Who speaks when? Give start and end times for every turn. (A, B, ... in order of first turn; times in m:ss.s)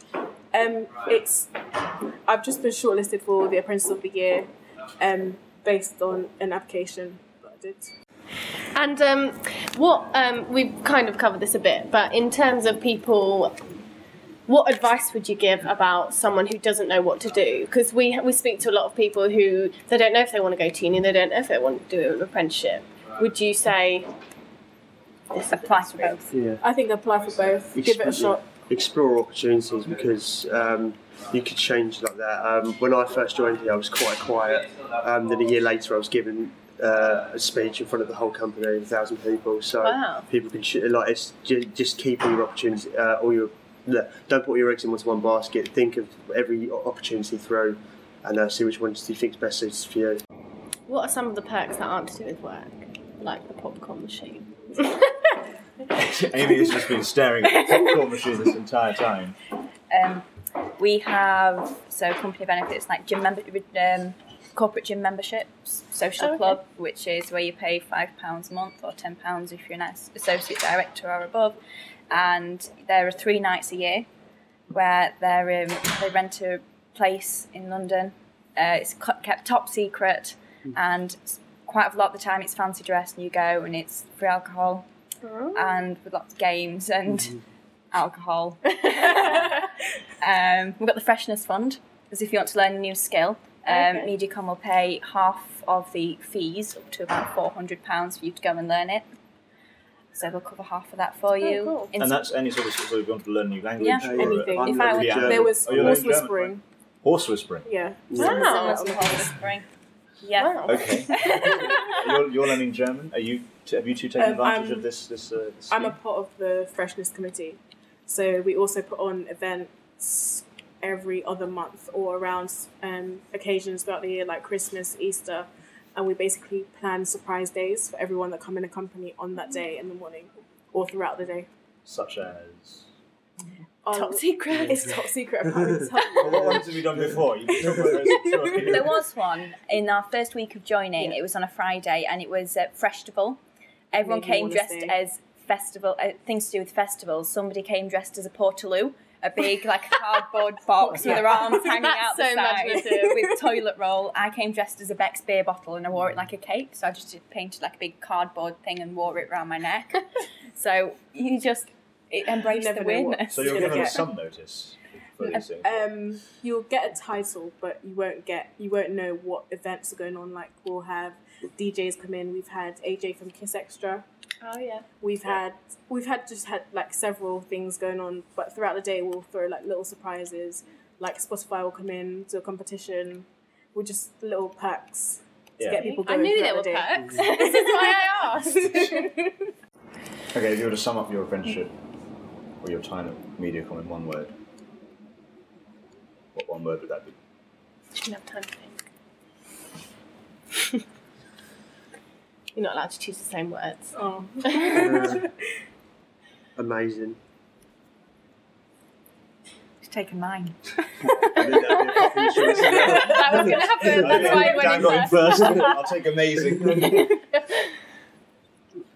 0:00.5-0:01.5 A
0:02.3-0:04.5 A
0:05.0-0:07.9 A
0:08.7-0:13.6 B
0:14.5-0:24.1 B
0:25.3-0:26.2 B
0:25.4-0:26.3 C
0:26.3-0:26.6 D
0:26.6-0:28.4 A
0:27.7-0:50.2 D
0:39.8-0:40.3 B
0:50.9-0:55.4 B
0:55.9-0:59.4 E
0:59.9-1:00.2 C
1:00.8-1:11.6 C
1:06.2-1:06.6 B
1:12.1-1:14.1 C
1:14.7-1:24.9 C
1:25.2-1:25.8 B
1:25.5-1:27.4 C
1:27.9-1:29.7 C
1:30.2-1:39.0 C
1:33.7-1:34.1 B
1:40.1-1:42.3 C
1:41.4-1:41.9 B
1:42.0-1:47.7 E
1:43.8-1:45.2 C
1:44.0-1:46.0 D
1:44.2-1:46.6 A
1:47.6-1:49.4 A
1:48.1-1:48.4 D
1:48.2-1:48.9 B
1:48.2-1:49.7 C
1:50.2-1:50.6 C
1:50.4-1:52.0 B
1:50.6-1:56.0 E
1:54.2-1:54.9 A
1:55.7-2:11.5 A
2:11.8-2:12.9 E
2:13.8-2:16.7 A
2:13.9-2:15.0 B
2:16.1-2:19.0 E
2:17.6-2:18.5 A
2:18.6-2:23.4 C
2:23.9-2:44.0 C
2:23.9-2:24.9 A
2:30.9-2:33.3 B
2:42.5-2:44.1 A
2:43.3-2:45.9 E
2:45.6-2:54.0 A
2:54.4-2:54.9 B
2:55.0-3:09.3 A
3:05.6-3:05.8 E
3:05.8-3:09.1 B
3:10.3-3:11.7 E
3:12.6-3:14.3 E
3:16.3-3:17.2 E
3:18.0-3:18.8 B
3:22.6-3:25.0 B
3:24.0-3:25.3 A
3:24.7-3:25.3 D
3:26.6-3:27.2 D
3:29.8-3:31.1 C
3:31.4-3:33.9 D
3:31.4-3:35.8 B
3:31.7-3:33.2 E
3:33.8-3:37.2 E